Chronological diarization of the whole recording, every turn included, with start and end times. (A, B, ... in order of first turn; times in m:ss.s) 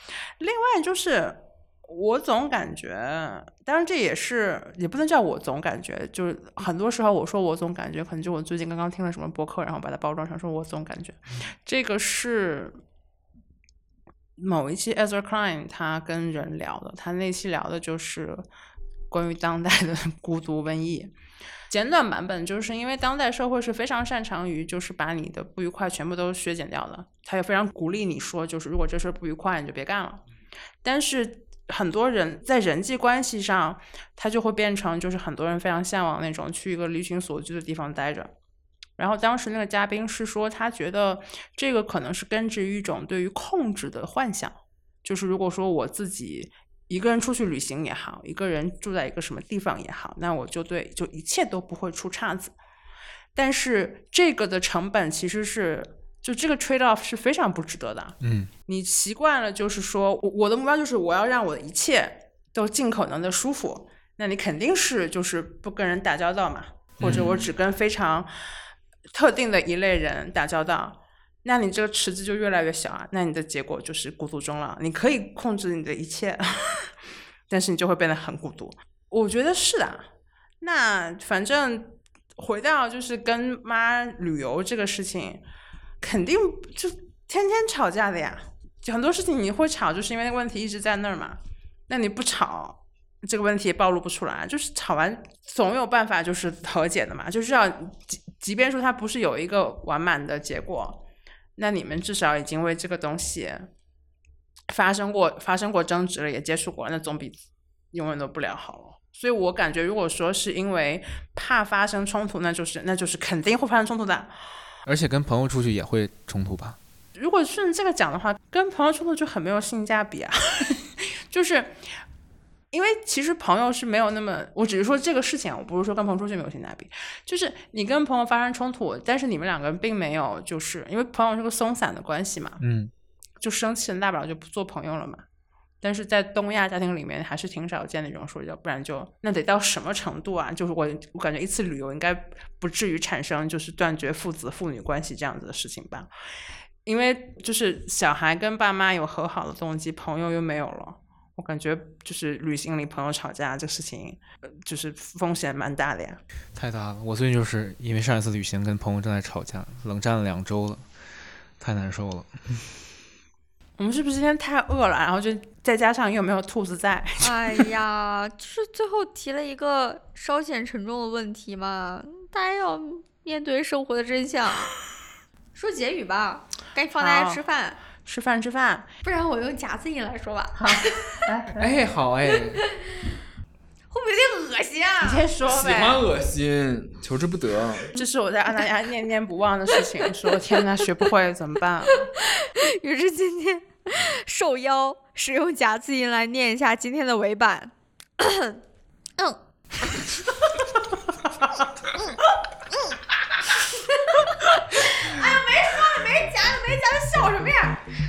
0:00.4-0:12.8 A
0:14.4-0:18.4 A
0:19.1-0:21.1 A
0:21.7-0:30.2 A
0:30.8-0:38.3 A
0:39.0-0:52.6 A
0:53.4-1:08.3 A
0:58.2-0:58.5 B
1:07.0-1:07.5 B
1:09.1-1:17.0 A
1:17.5-1:20.0 A
1:20.6-1:25.4 A
1:26.0-1:31.4 A
1:31.9-1:41.0 A
1:41.6-1:43.7 A
1:44.7-1:47.4 A
1:47.9-1:54.3 A
1:54.9-1:56.8 B
1:57.2-2:01.8 A
2:02.7-2:12.6 A
2:12.6-2:12.9 B
2:13.4-2:15.2 A
2:15.8-2:26.1 A
2:26.9-2:36.2 A
2:36.6-2:40.8 B
2:41.6-2:42.3 B
2:43.8-2:47.7 A
2:47.2-2:54.7 C
2:55.6-2:57.8 C
2:57.0-2:57.4 A
2:58.0-2:58.9 A
2:59.0-3:01.0 C
3:00.6-3:01.8 A
3:01.6-3:02.6 B
3:02.5-3:02.8 C
3:03.9-3:05.3 C
3:05.0-3:06.0 A
3:05.4-3:08.0 D
3:07.9-3:12.1 A
3:12.2-3:18.6 C
3:19.2-3:20.4 C
3:23.7-3:27.8 C